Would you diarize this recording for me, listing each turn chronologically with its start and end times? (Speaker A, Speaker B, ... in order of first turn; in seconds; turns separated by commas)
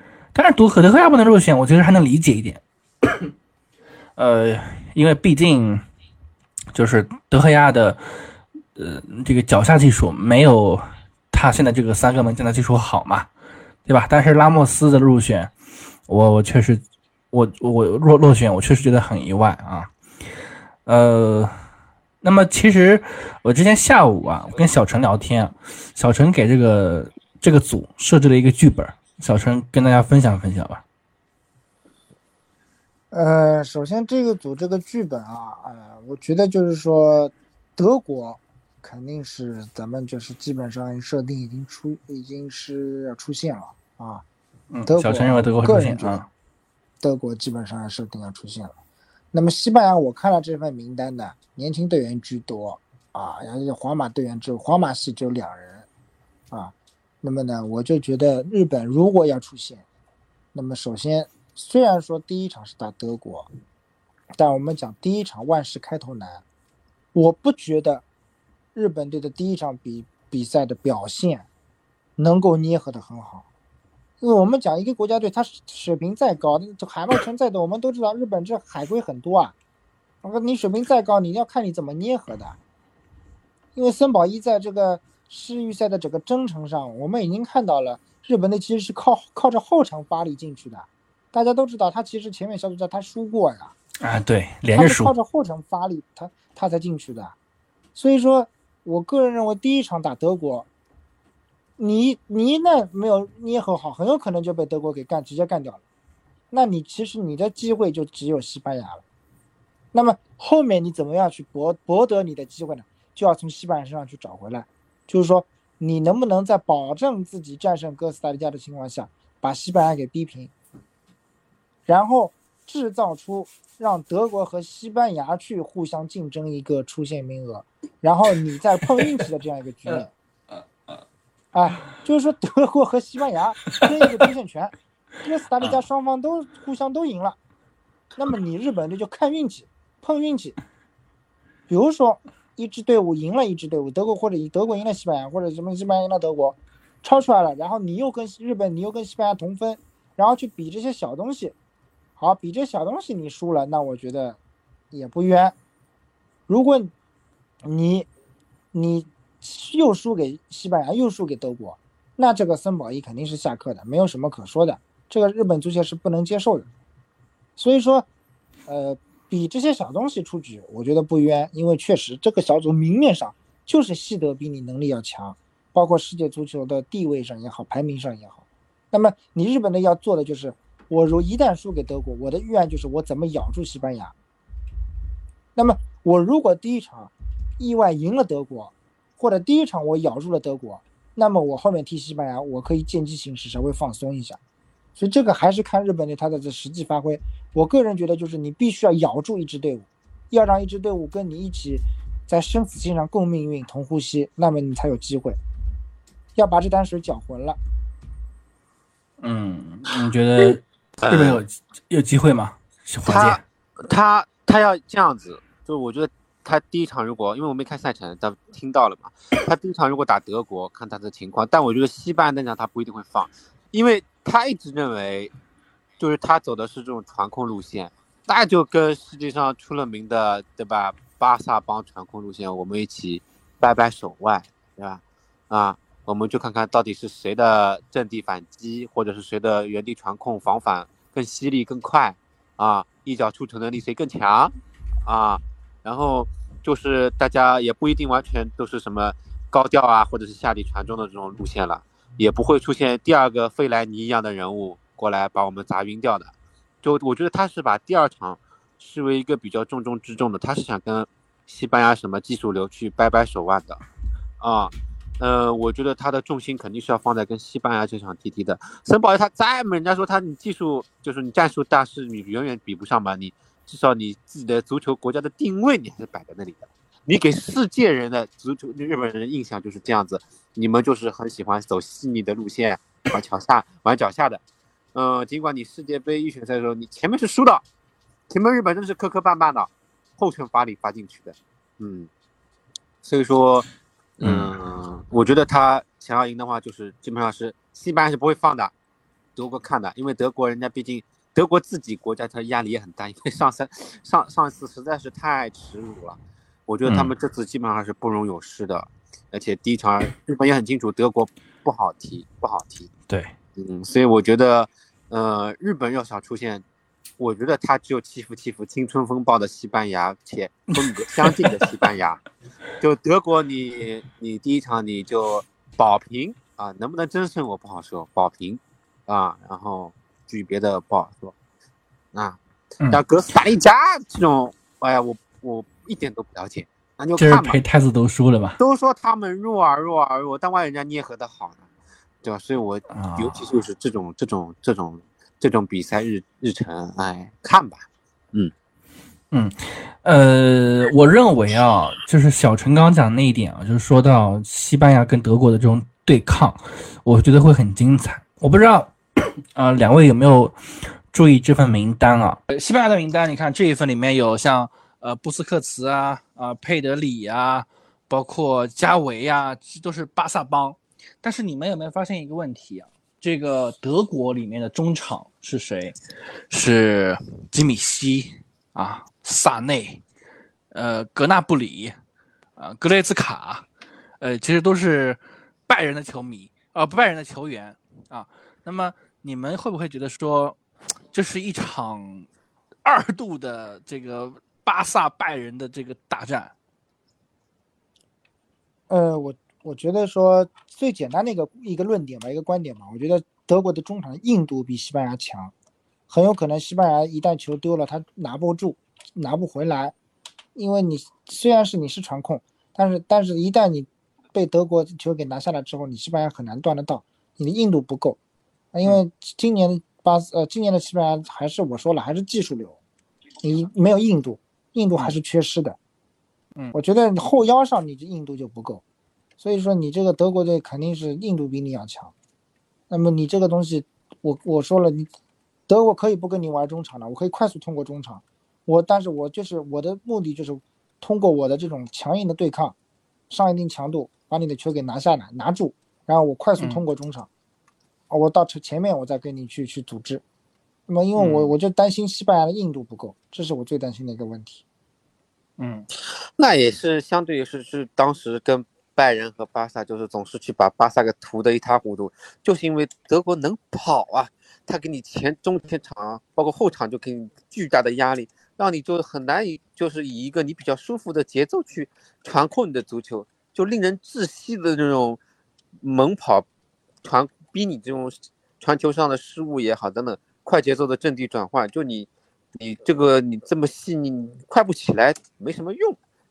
Speaker A: 0.3-3.3, Speaker A: 4.2-5.8, Speaker A: 6.7-8.0, Speaker A: 8.7-13.3, Speaker A: 13.8-15.5, Speaker A: 16.1-19.9, Speaker A: 20.9-21.5, Speaker A: 22.2-30.8, Speaker B: 33.1-44.2, Speaker A: 44.7-46.3, Speaker B: 44.9-46.2, Speaker B: 47.0-48.7, Speaker B: 49.3-55.9, Speaker B: 56.5-59.8, Speaker B: 60.5-63.5, Speaker B: 64.4-66.4, Speaker B: 67.1-68.0, Speaker B: 68.7-71.5, Speaker B: 72.2-73.4, Speaker B: 74.2-79.5, Speaker B: 80.2-82.6, Speaker B: 83.7-93.7, Speaker A: 94.0-95.1, Speaker B: 94.7-97.3, Speaker B: 97.9-100.7, Speaker B: 101.8-105.8, Speaker B: 106.5-109.0, Speaker B: 109.9-120.5, Speaker B: 121.9-130.1, Speaker B: 131.5-137.4, Speaker B: 138.2-140.6, Speaker B: 141.7-151.5, Speaker B: 152.2-154.4, Speaker B: 154.9-155.6, Speaker B: 156.5-156.9, Speaker B: 157.6-158.1, Speaker B: 158.7-166.7, Speaker B: 167.6-168.1, Speaker B: 168.7-178.4, Speaker B: 178.9-184.1, Speaker B: 185.6-194.4, Speaker B: 195.0-205.4, Speaker B: 206.3-207.6, Speaker A: 209.2-213.4, Speaker C: 211.0-211.4, Speaker C: 213.1-225.3, Speaker C: 226.0-244.5, Speaker C: 245.0-263.8, Speaker C: 264.4-284.4, Speaker C: 284.9-287.6, Speaker C: 288.3-292.1, Speaker C: 293.0-293.6, Speaker C: 294.2-298.7, Speaker A: 294.2-294.5, Speaker C: 299.4-312.9, Speaker A: 306.9-307.1, Speaker C: 313.6-316.6, Speaker C: 317.2-322.2, Speaker A: 320.9-321.5, Speaker C: 322.8-331.3, Speaker C: 332.1-337.6, Speaker A: 337.2-338.6, Speaker C: 338.6-341.6, Speaker C: 342.2-348.5, Speaker A: 342.9-343.5, Speaker A: 349.3-375.9, Speaker A: 376.5-380.0, Speaker A: 380.7-381.9, Speaker A: 382.6-383.6, Speaker A: 384.2-390.6, Speaker A: 391.1-392.3, Speaker A: 392.8-396.5, Speaker B: 398.9-405.5, Speaker B: 406.1-409.9, Speaker B: 410.5-418.2, Speaker B: 418.7-422.8, Speaker B: 423.4-425.8, Speaker B: 426.7-428.8, Speaker B: 429.4-432.1, Speaker B: 432.9-435.1, Speaker B: 435.7-442.7, Speaker B: 443.3-447.3, Speaker B: 448.1-450.2, Speaker B: 450.9-454.6, Speaker A: 451.2-451.5, Speaker A: 455.6-455.9, Speaker C: 456.4-475.2, Speaker C: 475.8-476.4, Speaker C: 477.0-486.0